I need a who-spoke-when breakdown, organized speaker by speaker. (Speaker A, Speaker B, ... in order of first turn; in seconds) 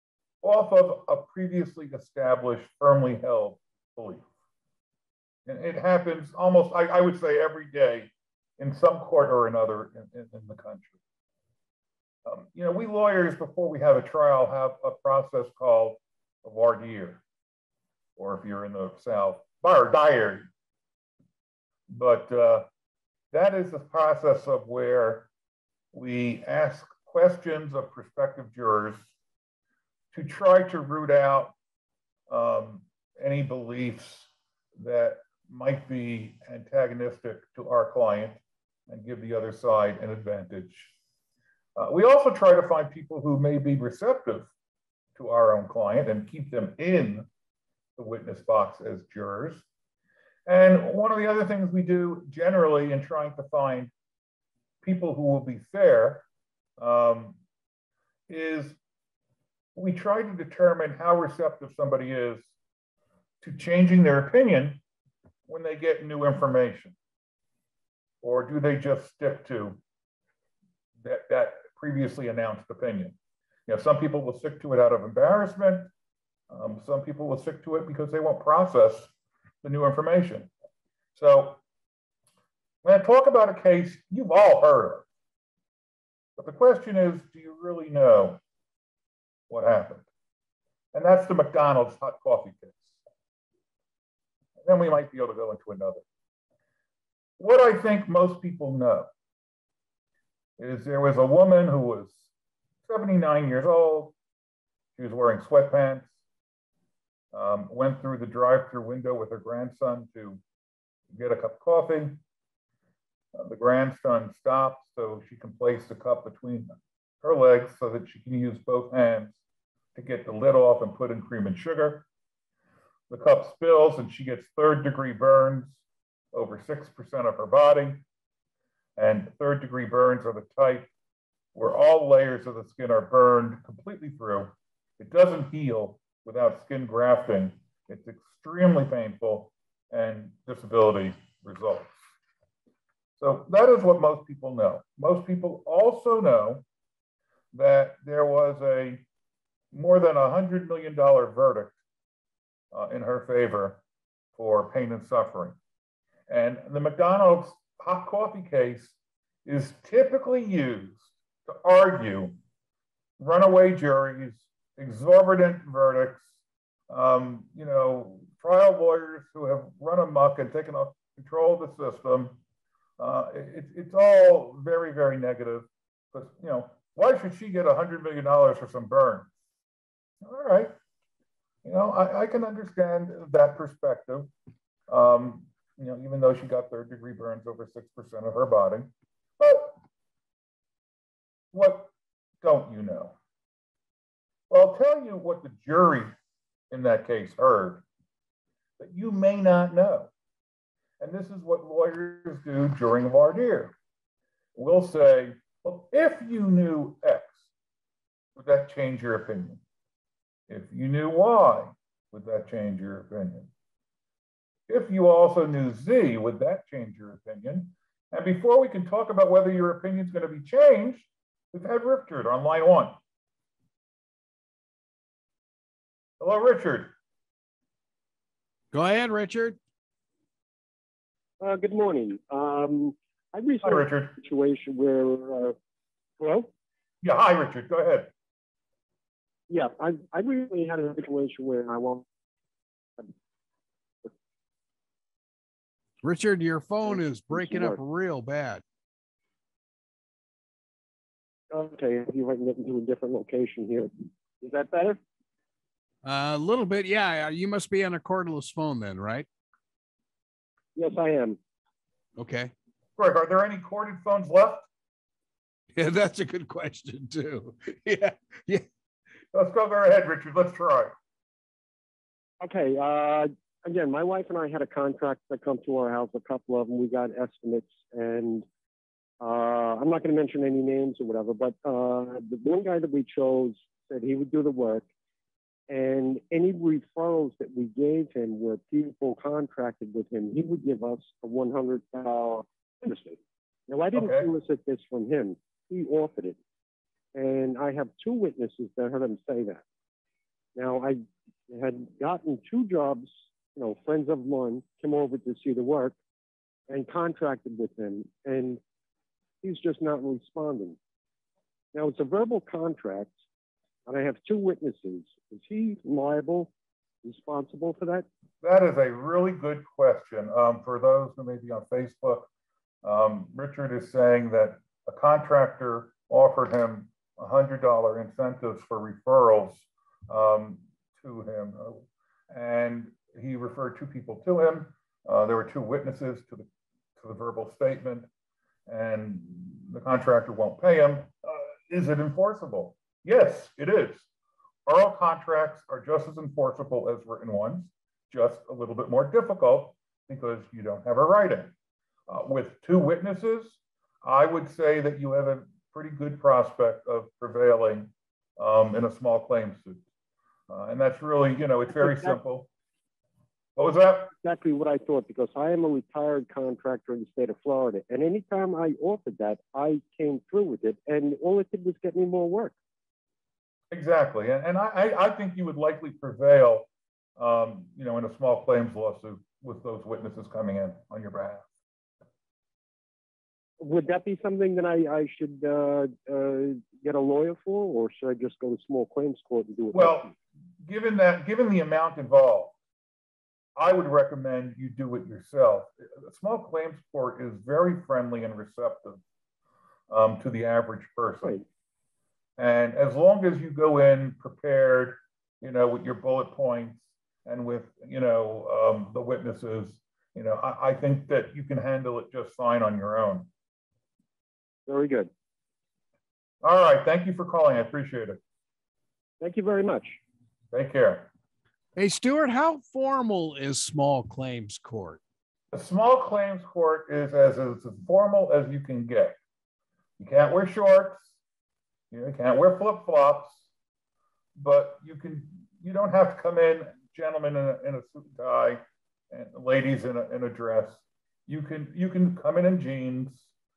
Speaker A: 0.4-4.3, 5.5-11.0, 12.3-17.2, 18.2-20.5, 21.9-22.7, 23.3-25.3, 25.9-29.1, 30.1-31.5, 32.3-40.9, 41.8-44.5, 45.2-47.3, 48.0-49.6, 50.5-53.9, 54.8-56.2, 56.8-57.4, 58.3-58.8, 59.8-62.5, 63.4-64.8, 65.5-67.0, 68.2-69.8, 71.0-73.2, 73.7-75.9, 76.5-79.1, 79.6-80.5, 81.2-81.6, 82.8-85.1, 86.4-88.4, 89.5-90.1, 90.9-93.0, 94.6-96.0, 97.4-99.1, 100.6-102.3, 102.9-104.2, 105.0-106.2, 107.3-110.4, 111.1-112.2, 113.3-116.7, 117.2-119.4, 120.0-122.0, 123.1-125.8, 126.3-128.0, 129.0-130.9, 131.5-141.9, 143.2-146.6, 147.5-149.0, 149.7-151.8, 152.7-153.8, 154.3-155.6, 156.3-162.4, 163.2-166.3, 166.9-172.4, 173.0-179.3, 180.2-180.7, 181.6-184.3, 184.9-189.8, 191.5-193.2, 194.5-196.1, 196.7-197.8, 198.8-200.1, 201.0-203.8, 204.6-207.5, 208.4-209.6, 210.5-213.5, 214.7-223.0, 226.2-226.9, 233.6-234.1, 237.0-238.1, 263.0-264.7, 269.3-270.9, 293.9-294.3, 318.4-322.3, 322.8-336.5, 337.0-338.1, 338.7-344.1, 344.7-351.5, 352.1-359.8, 360.5-362.5, 363.6-364.1, 373.7-381.5, 389.7-390.1, 390.6-392.6, 393.6-399.0, 399.9-401.4, 402.4-413.3, 416.4-418.2, 420.5-421.1, 425.5-429.1, 430.0-431.2, 431.9-433.4, 434.4-443.3
Speaker B: 228.7-229.6, 246.0-248.6, 256.0-259.3, 262.2-262.5, 265.8-268.6, 421.8-425.0
Speaker C: 231.4-235.6, 236.2-236.5, 239.5-242.1, 247.3-247.8, 251.5-255.0, 260.8-261.4, 272.4-278.5, 279.2-284.9, 285.7-296.4, 297.1-299.6, 300.6-306.0, 306.7-308.6, 309.4-310.8, 311.7-313.1, 313.9-316.5, 317.0-318.1, 361.8-362.2, 364.2-372.6, 383.6-390.1, 414.7-415.1, 419.2-420.0